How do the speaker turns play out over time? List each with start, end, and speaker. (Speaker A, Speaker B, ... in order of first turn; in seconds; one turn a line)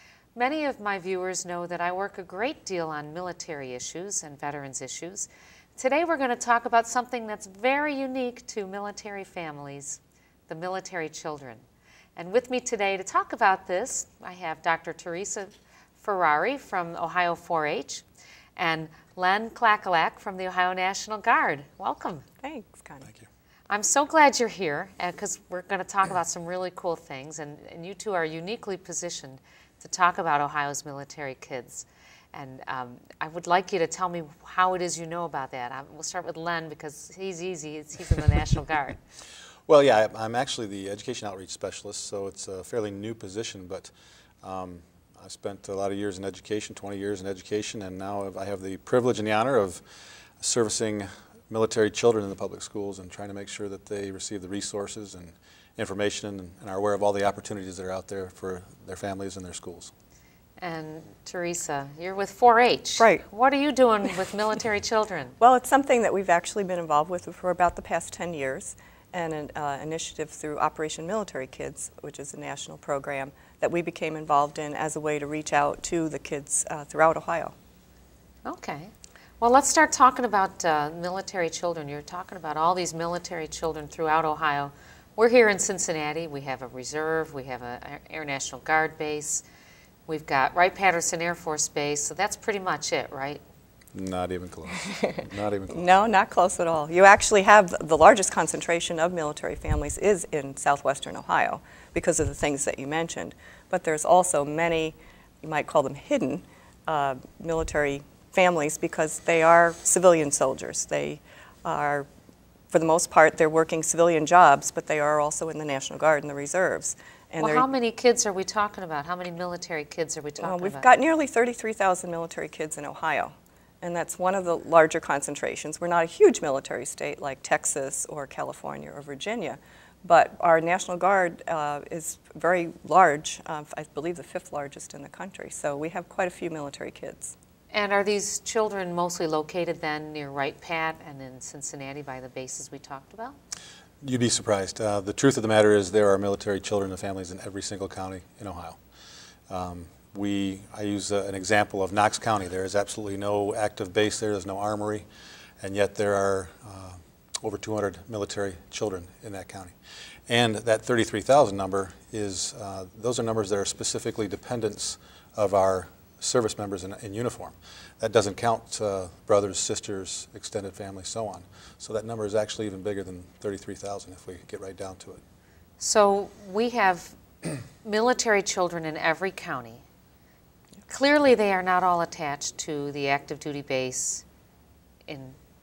Speaker A: 0.3-11.6
Speaker A: 12.2-18.0
Speaker A: 18.6-22.2
Speaker B: 22.4-23.1
Speaker A: 23.7-39.0
Speaker C: 39.7-49.8
Speaker C: 50.4-59.9
Speaker A: 60.6-65.4
Speaker B: 63.0-63.2
Speaker B: 65.4-77.5
Speaker A: 78.4-89.4
Speaker A: 90.1-93.4
Speaker C: 93.9-95.9
Speaker B: 95.7-112.1
Speaker B: 112.7-117.7
Speaker A: 117.4-120.8
Speaker B: 120.4-137.3
Speaker A: 137.7-143.3
Speaker C: 144.0-148.8
Speaker C: 149.5-155.1
Speaker C: 155.6-159.8
Speaker C: 160.3-175.2
Speaker A: 175.8-177.2
Speaker A: 177.8-179.8
Speaker A: 180.9-184.2
Speaker A: 185.1-185.3